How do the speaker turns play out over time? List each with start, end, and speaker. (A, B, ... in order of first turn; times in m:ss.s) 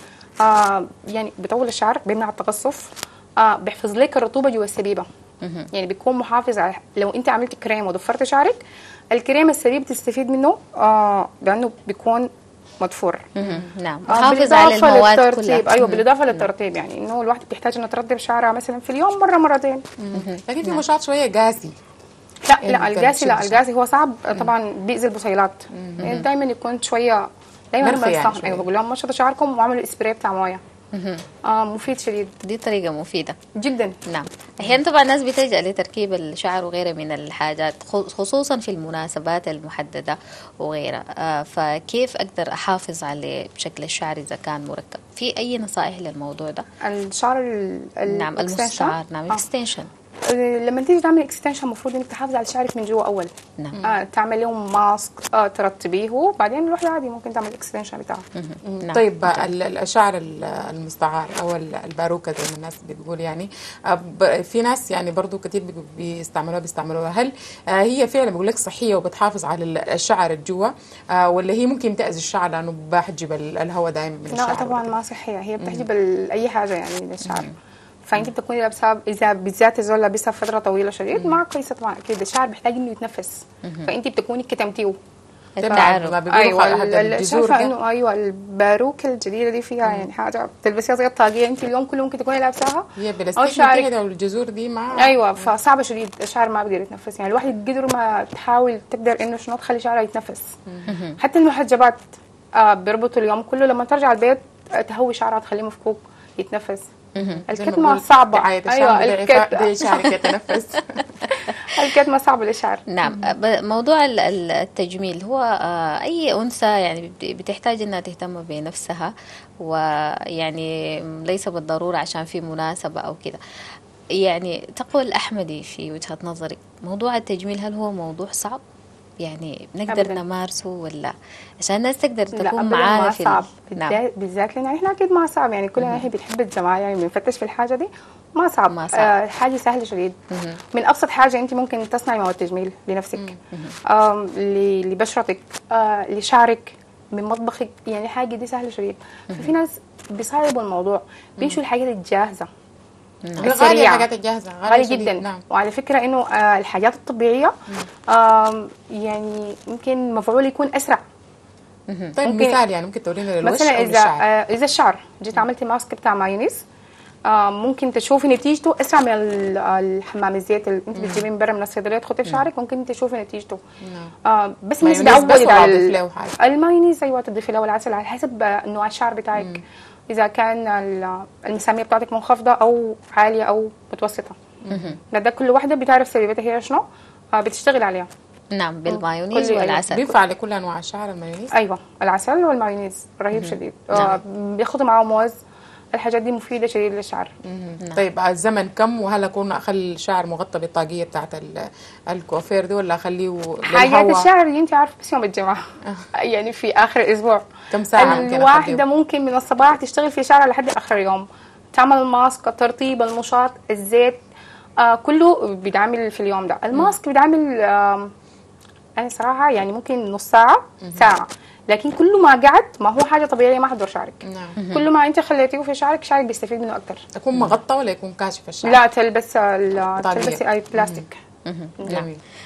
0:00.4-0:05.1 A
0:05.4-0:05.7 B
0:05.7-0:08.6 A
0:09.1-0:12.3 A
0:12.8-0:13.3 A
0:13.4-0:16.5 B
0:13.4-0:13.7 C
0:14.1-0:19.8 A
0:20.0-0:21.8 C
0:20.1-0:20.8 B
0:22.4-0:30.6 A
0:22.6-0:23.6 C
0:25.7-0:26.2 C
0:26.0-0:26.3 B
0:27.8-0:28.7 C
0:30.9-0:31.2 B
0:31.4-0:32.4 A
0:32.4-0:33.4 B
0:33.6-0:34.0 A
0:34.1-0:46.7 B
0:46.8-0:49.4 A
0:48.1-0:49.9 B
0:50.2-0:58.2 A
0:53.7-0:54.0 C
0:58.4-0:59.5 B
0:58.7-1:15.0 C
1:14.3-1:17.5 A
1:17.2-1:17.6 B
1:18.1-1:25.0 A
1:21.1-1:21.4 C
1:23.6-1:23.9 B
1:25.6-1:26.2 B
1:25.6-1:27.7 C
1:25.7-1:32.9 A
1:33.0-1:35.5 C
1:33.4-1:33.9 A
1:35.0-1:40.6 A
1:40.7-1:40.9 C
1:40.9-1:41.2 B
1:41.2-1:42.0 A
1:42.5-1:46.9 A
1:47.2-1:47.4 B
1:47.2-1:51.1 C
1:47.5-1:49.8 A
1:49.9-1:50.3 B
1:51.2-1:51.6 B
1:51.6-1:52.8 A
1:52.9-2:03.4 B
1:53.0-1:53.3 C
2:04.2-2:08.6 B
2:09.2-2:14.0 B
2:09.9-2:10.2 A
2:12.3-2:20.2 A
2:15.8-2:16.1 B
2:18.7-2:19.1 B
2:20.3-2:20.6 B
2:20.7-2:32.5 A
2:23.5-2:23.8 B
2:33.4-2:34.1 A
2:33.4-2:35.4 C
2:34.7-2:37.5 A
2:38.1-2:41.0 A
2:41.9-2:42.2 B
2:42.2-2:44.2 C
2:42.2-2:42.6 A
2:43.4-2:46.6 A
2:47.3-2:53.6 A
2:51.0-2:51.3 C
2:53.8-2:54.1 C
2:54.2-3:04.4 A
2:54.8-2:56.4 C
2:59.4-2:59.6 C
3:04.6-3:05.0 C
3:04.7-3:05.0 B
3:05.1-3:08.1 A
3:08.5-3:10.1 B
3:08.9-3:09.9 A
3:09.9-3:11.5 C
3:11.5-3:15.4 A
3:13.4-3:14.2 B
3:15.9-3:17.3 A
3:17.4-3:24.3 C
3:23.7-3:34.2 A
3:27.7-3:28.8 C
3:34.8-3:38.1 A
3:39.0-3:47.1 A
3:40.8-3:41.1 C
3:44.2-3:44.6 C
3:44.6-3:44.9 B
3:47.2-3:48.8 C
3:48.6-3:51.2 A
3:50.0-3:51.0 C
3:51.5-3:52.1 B
3:51.9-3:52.2 C